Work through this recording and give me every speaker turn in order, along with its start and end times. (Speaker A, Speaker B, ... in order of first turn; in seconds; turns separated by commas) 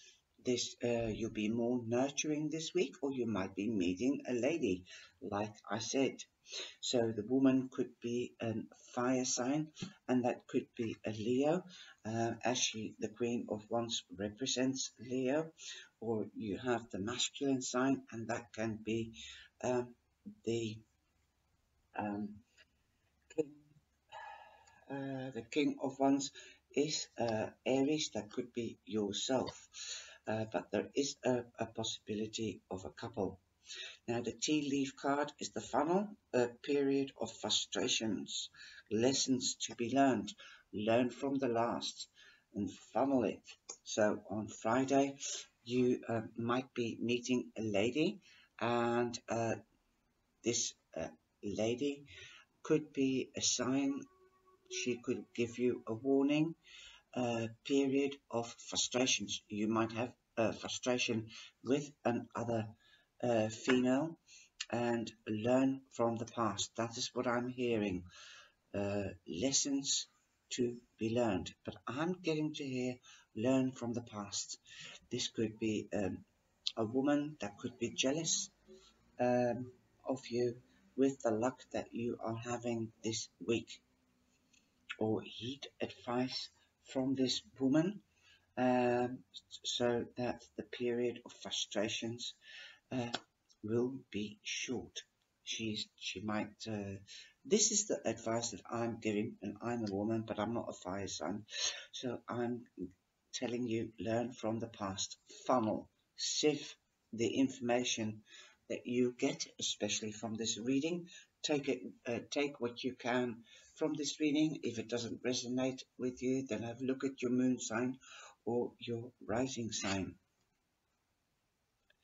Speaker A: 0.4-6.3, Speaker A: 6.8-20.8, Speaker A: 22.0-22.4, Speaker A: 23.3-33.4, Speaker A: 34.1-49.6, Speaker A: 50.4-52.1, Speaker A: 52.6-54.1, Speaker A: 54.7-56.6, Speaker A: 57.1-64.2, Speaker A: 64.7-68.1, Speaker A: 68.7-76.2, Speaker A: 76.8-78.5, Speaker A: 79.2-83.8, Speaker A: 85.0-88.0, Speaker A: 88.6-92.4, Speaker A: 92.9-120.2